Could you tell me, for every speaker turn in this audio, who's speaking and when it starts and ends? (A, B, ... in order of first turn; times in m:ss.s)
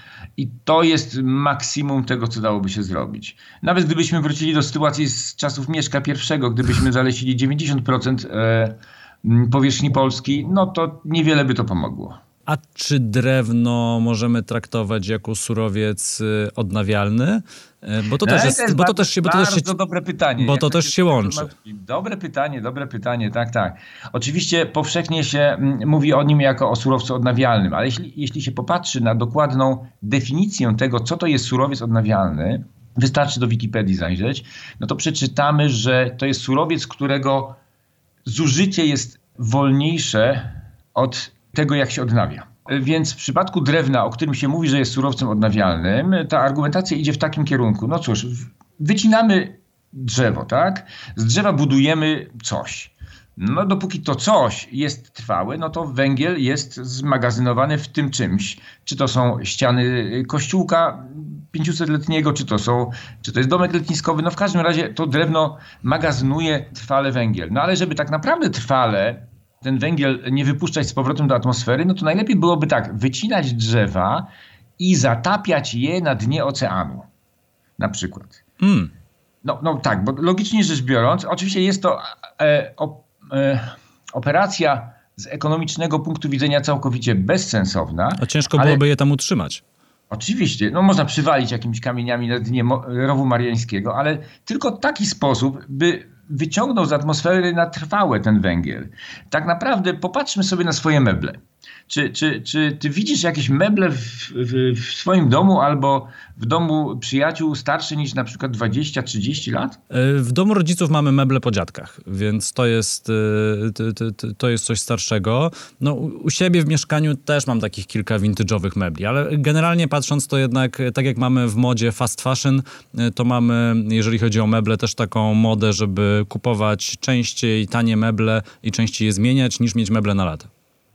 0:00.4-0:12.2 A
0:12.5-0:19.7 B
0:18.2-0:37.6 A
0:20.4-0:21.5 B
0:38.2-1:17.1 A
1:17.8-1:18.4 A
1:18.6-1:18.9 B
1:19.4-1:28.8 A
1:28.2-1:29.6 B
1:30.1-1:41.4 A
1:41.9-1:49.8 A
1:49.9-2:10.5 B